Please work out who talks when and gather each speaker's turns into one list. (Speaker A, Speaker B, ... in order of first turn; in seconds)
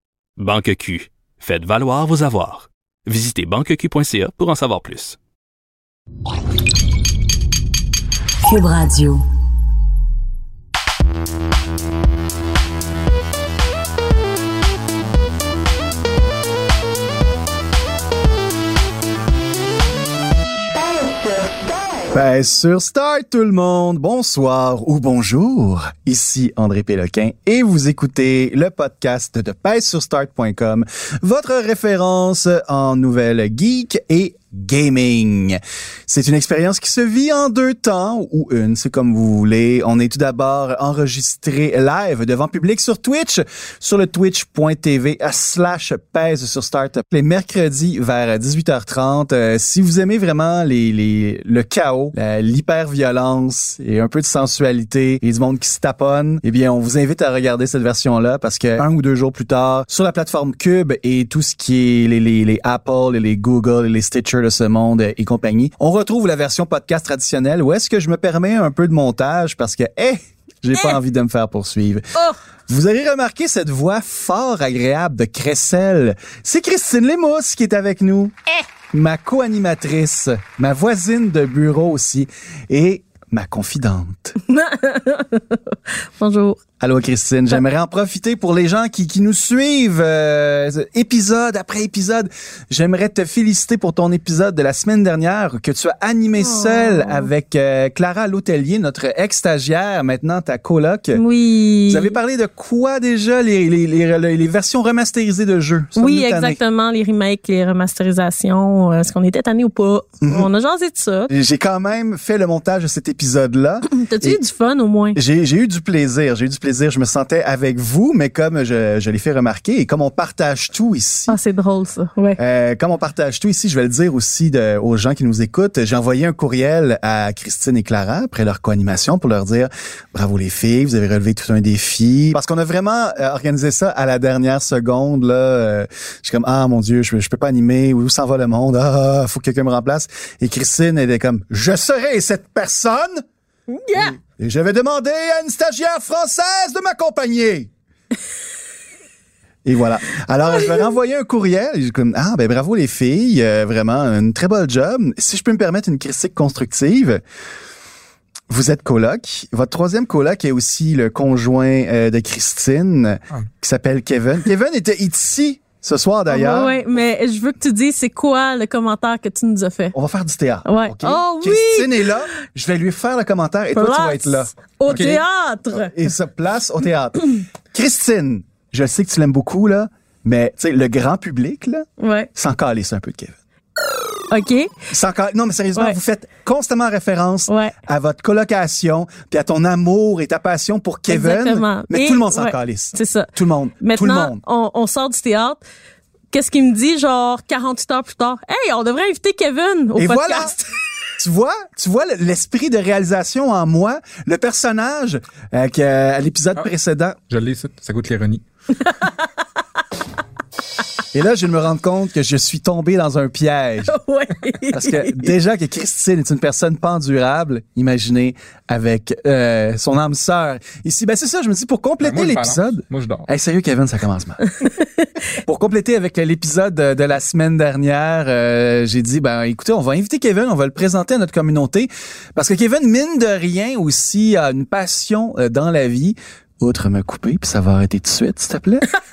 Speaker A: 0.4-5.2
Speaker B: 8.4-9.2, 20.7-22.1
Speaker C: 22.1-72.1, 72.7-84.3, 86.8-101.2, 101.9-106.6, 110.2-110.5, 111.3-114.4, 115.1-121.4, 122.4-143.2, 143.9-147.7, 149.6-157.2, 158.5-166.7, 169.9-175.1, 175.7-183.4, 184.9-194.4, 200.0-200.5, 201.2-207.2, 211.1-213.9, 214.7-224.4, 225.4-238.9
Speaker D: 84.4-86.6, 96.4-97.3, 101.1-102.2, 106.0-111.3, 113.9-115.2, 121.3-122.4, 143.7-144.2, 166.3-169.9, 170.7-172.1, 173.7-175.9, 182.0-182.3, 184.3-184.7, 187.5-187.7, 191.1-193.3, 193.8-195.6, 196.3-200.7, 208.8-209.2, 213.9-215.3
Speaker E: 174.9-175.2, 207.3-208.4, 222.0-223.3